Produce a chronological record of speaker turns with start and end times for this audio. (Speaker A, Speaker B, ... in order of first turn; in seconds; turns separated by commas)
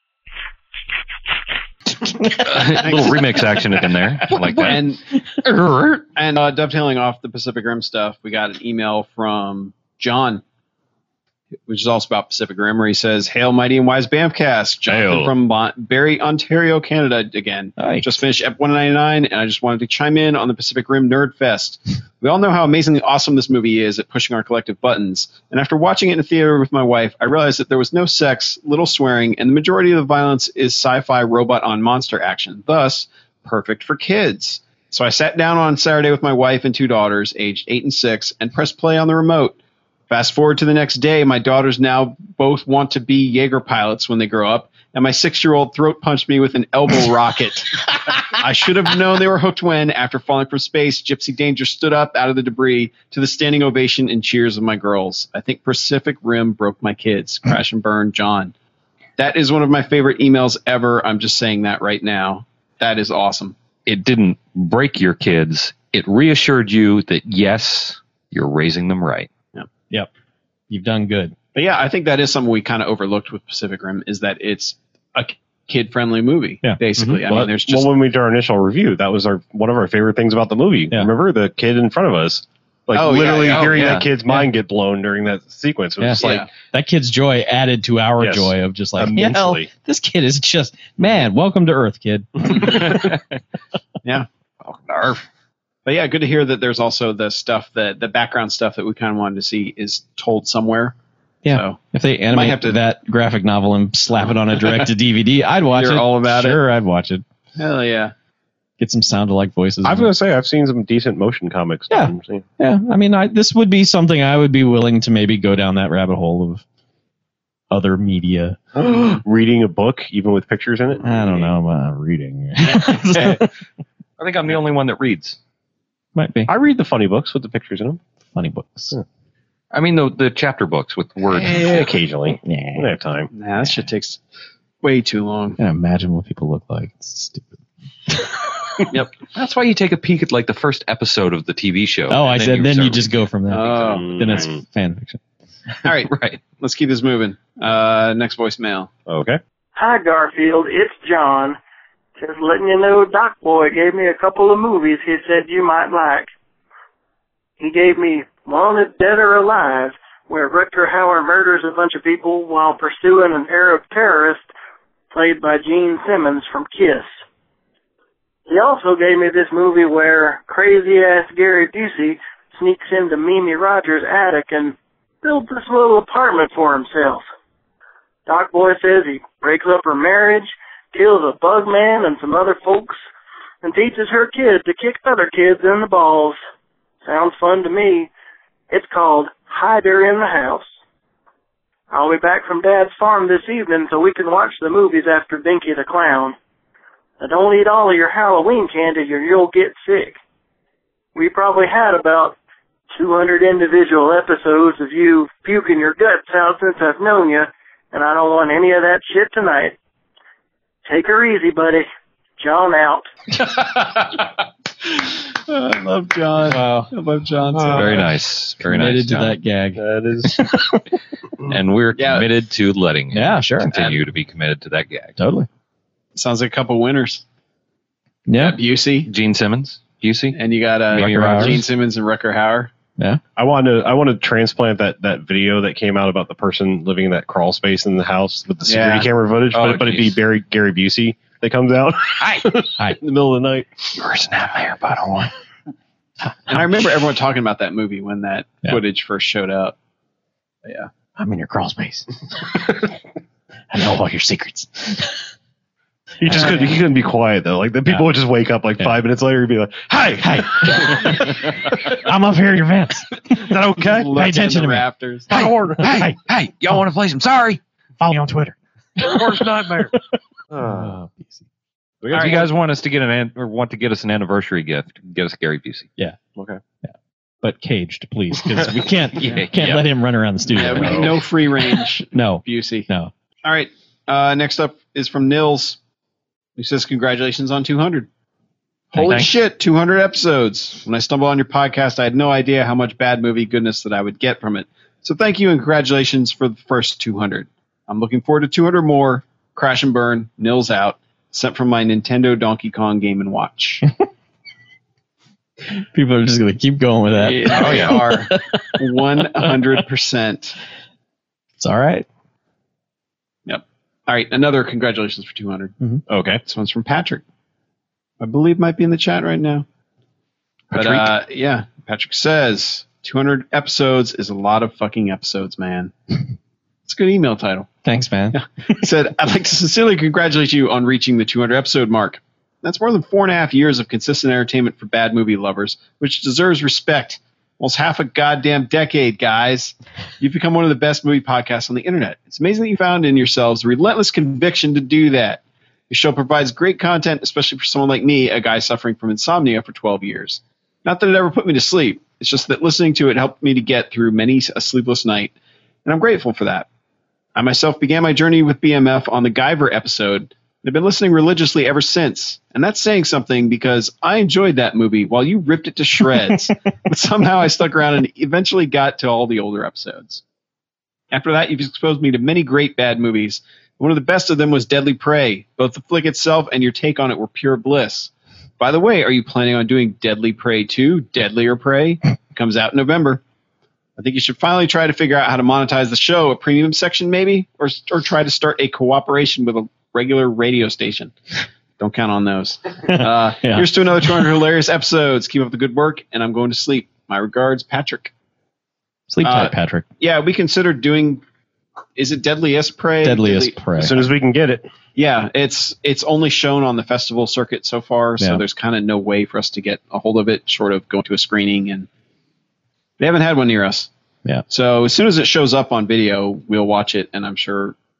Speaker A: 2.2-2.8, Speaker B: 2.4-4.8, Speaker C: 2.8-3.2, Speaker C: 4.6-5.0, Speaker C: 5.9-10.4, Speaker C: 11.7-39.6, Speaker B: 14.9-15.3, Speaker A: 17.8-18.1, Speaker C: 40.1-58.5, Speaker C: 59.2-63.6, Speaker B: 63.9-69.3, Speaker A: 70.7-71.3, Speaker C: 71.5-77.9, Speaker D: 77.0-86.5, Speaker C: 82.9-84.0, Speaker B: 83.3-84.1, Speaker A: 86.0-92.8, Speaker C: 86.2-86.5, Speaker D: 88.2-89.7, Speaker C: 92.6-92.9, Speaker B: 92.9-93.2, Speaker C: 94.0-95.2, Speaker C: 95.8-101.0, Speaker A: 101.5-107.2, Speaker C: 101.5-101.8, Speaker C: 102.3-102.8, Speaker C: 104.2-104.8, Speaker C: 105.7-106.6, Speaker C: 107.6-108.1, Speaker A: 108.8-110.1, Speaker D: 109.8-112.5, Speaker A: 111.9-116.6, Speaker A: 117.7-118.6, Speaker D: 118.8-121.1, Speaker C: 121.0-121.5, Speaker A: 121.0-123.4, Speaker B: 124.2-125.4, Speaker A: 126.2-126.5, Speaker D: 126.5-128.0, Speaker A: 128.3-129.0, Speaker B: 129.7-131.9, Speaker D: 131.3-133.3, Speaker A: 132.4-132.9, Speaker C: 133.3-134.2, Speaker C: 134.8-135.6, Speaker A: 135.6-138.3, Speaker B: 139.2-143.1, Speaker A: 142.1-145.2, Speaker C: 143.5-144.2, Speaker D: 143.8-144.6, Speaker C: 145.8-148.9, Speaker B: 146.1-146.4, Speaker D: 149.1-149.4, Speaker E: 149.8-151.6, Speaker E: 152.2-156.3, Speaker E: 157.6-164.5, Speaker E: 165.1-167.2, Speaker E: 168.5-177.3, Speaker E: 178.3-183.0, Speaker E: 183.6-186.4, Speaker E: 187.0-188.1, Speaker E: 188.7-190.8, Speaker E: 191.9-196.4, Speaker E: 197.2-200.2, Speaker E: 201.2-202.3, Speaker E: 202.9-209.8, Speaker E: 210.9-211.8, Speaker E: 212.4-213.1, Speaker C: 215.5-218.1, Speaker A: 216.5-216.9, Speaker D: 217.5-217.8, Speaker B: 217.7-219.4, Speaker A: 218.6-220.8, Speaker D: 219.8-220.6, Speaker B: 221.5-225.2, Speaker C: 222.0-222.3, Speaker A: 223.1-223.7, Speaker A: 225.2-225.5, Speaker C: 226.2-227.2, Speaker A: 228.3-228.6, Speaker C: 228.4-229.1, Speaker B: 229.1-231.7, Speaker C: 230.3-232.7, Speaker A: 230.9-231.6, Speaker D: 233.4-244.0, Speaker C: 238.7-239.1, Speaker B: 239.5-240.2, Speaker B: 242.2-242.5, Speaker B: 244.0-245.3, Speaker C: 246.5-249.8, Speaker C: 250.7-250.9, Speaker A: 251.2-252.1, Speaker D: 252.6-252.9, Speaker A: 253.7-255.2, Speaker D: 256.2-261.5, Speaker A: 256.3-256.6, Speaker A: 260.2-263.2, Speaker D: 263.4-264.1, Speaker C: 263.8-265.3, Speaker A: 264.1-264.9, Speaker D: 265.3-266.1, Speaker B: 265.3-267.6, Speaker A: 265.8-266.2, Speaker A: 268.0-269.2, Speaker D: 269.0-269.9, Speaker D: 270.5-271.0, Speaker A: 270.6-271.4, Speaker D: 272.0-272.5, Speaker B: 272.1-275.9, Speaker C: 272.1-272.5, Speaker D: 276.4-276.6, Speaker A: 277.4-281.1, Speaker B: 279.2-279.8, Speaker C: 280.5-282.9, Speaker D: 280.7-281.2, Speaker A: 282.1-283.1, Speaker C: 283.4-285.8, Speaker C: 286.6-288.1, Speaker C: 288.9-303.8, Speaker B: 289.0-289.3, Speaker A: 305.9-308.8, Speaker C: 307.1-310.6, Speaker A: 311.6-312.1, Speaker C: 313.5-315.8, Speaker D: 316.1-316.4, Speaker C: 316.4-317.2, Speaker C: 318.2-319.6, Speaker C: 320.7-325.9, Speaker A: 320.8-321.1, Speaker C: 326.9-327.7, Speaker A: 327.8-328.4, Speaker C: 328.3-356.7, Speaker C: 357.4-370.2, Speaker C: 371.1-383.2, Speaker C: 384.0-391.1, Speaker C: 391.8-398.1, Speaker A: 392.9-394.3, Speaker A: 399.1-399.9, Speaker C: 399.2-401.2, Speaker C: 402.0-403.6, Speaker A: 403.0-403.9, Speaker D: 403.8-404.7, Speaker C: 404.9-411.9, Speaker C: 413.0-413.9, Speaker C: 414.5-417.8